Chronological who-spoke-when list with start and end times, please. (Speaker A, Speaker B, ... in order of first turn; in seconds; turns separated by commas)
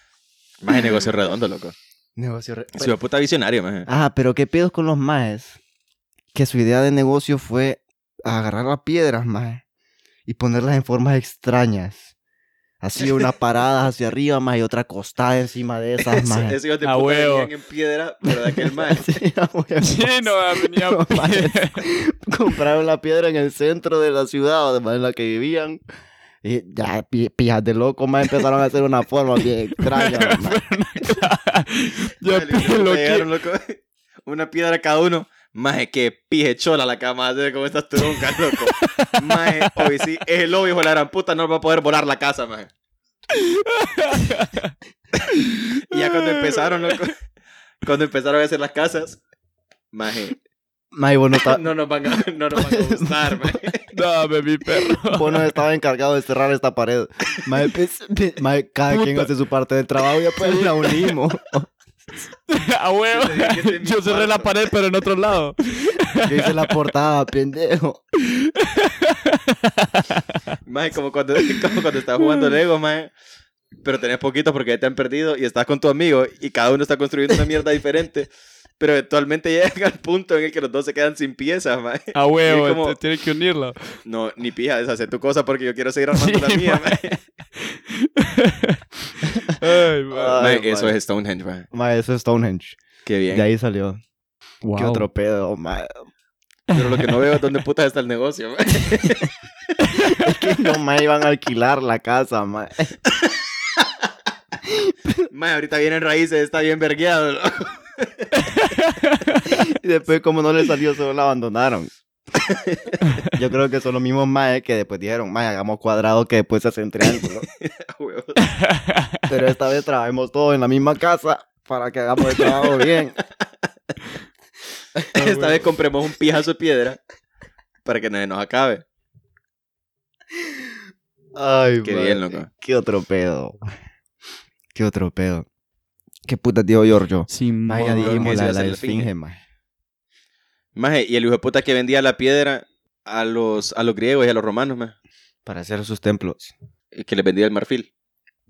Speaker A: 0.6-1.8, Speaker B: 2.2-3.0, Speaker A: 2.8-3.9, Speaker B: 3.9-5.6, Speaker B: 6.3-9.6, Speaker B: 10.3-12.1, Speaker B: 12.8-16.6, Speaker A: 16.0-19.1, Speaker C: 16.8-17.5, Speaker B: 18.4-25.8, Speaker C: 19.8-21.9, Speaker B: 26.4-30.6, Speaker C: 29.8-33.3, Speaker A: 32.2-42.7, Speaker C: 38.0-39.9, Speaker C: 43.3-44.7, Speaker C: 45.3-47.0, Speaker A: 45.8-47.2, Speaker A: 47.8-49.2, Speaker A: 49.9-50.4, Speaker B: 50.9-51.6, Speaker A: 51.4-53.9, Speaker B: 52.5-53.6, Speaker C: 53.9-55.5, Speaker B: 54.9-61.7, Speaker C: 58.9-59.3, Speaker C: 60.4-61.1, Speaker C: 62.5-66.7, Speaker A: 63.1-64.7, Speaker B: 66.2-68.0, Speaker C: 68.2-70.4, Speaker A: 70.7-73.1, Speaker C: 72.2-72.5, Speaker A: 73.8-83.0, Speaker C: 82.2-84.0, Speaker A: 84.0-87.2, Speaker C: 86.1-87.0, Speaker C: 87.6-90.4, Speaker B: 90.1-91.0, Speaker A: 90.3-91.7, Speaker B: 91.7-94.0, Speaker A: 93.1-93.5, Speaker C: 94.6-95.1, Speaker B: 94.8-95.9, Speaker C: 96.7-97.1, Speaker A: 96.7-99.3, Speaker C: 99.8-100.3, Speaker B: 100.0-103.0, Speaker A: 103.2-103.9, Speaker B: 104.7-105.2, Speaker A: 105.3-108.4, Speaker C: 108.4-109.6, Speaker B: 109.5-112.0, Speaker A: 112.4-113.0, Speaker C: 113.0-113.3, Speaker B: 113.3-117.5, Speaker A: 117.6-118.5, Speaker C: 118.4-119.3, Speaker B: 119.3-123.2, Speaker B: 125.0-125.6, Speaker A: 125.1-127.0, Speaker A: 127.8-128.8, Speaker B: 131.3-133.7, Speaker A: 131.8-132.5, Speaker B: 134.7-135.5, Speaker B: 136.2-139.4, Speaker C: 137.3-138.4, Speaker A: 137.9-139.1, Speaker A: 140.8-144.9, Speaker B: 145.5-146.5, Speaker A: 146.9-147.9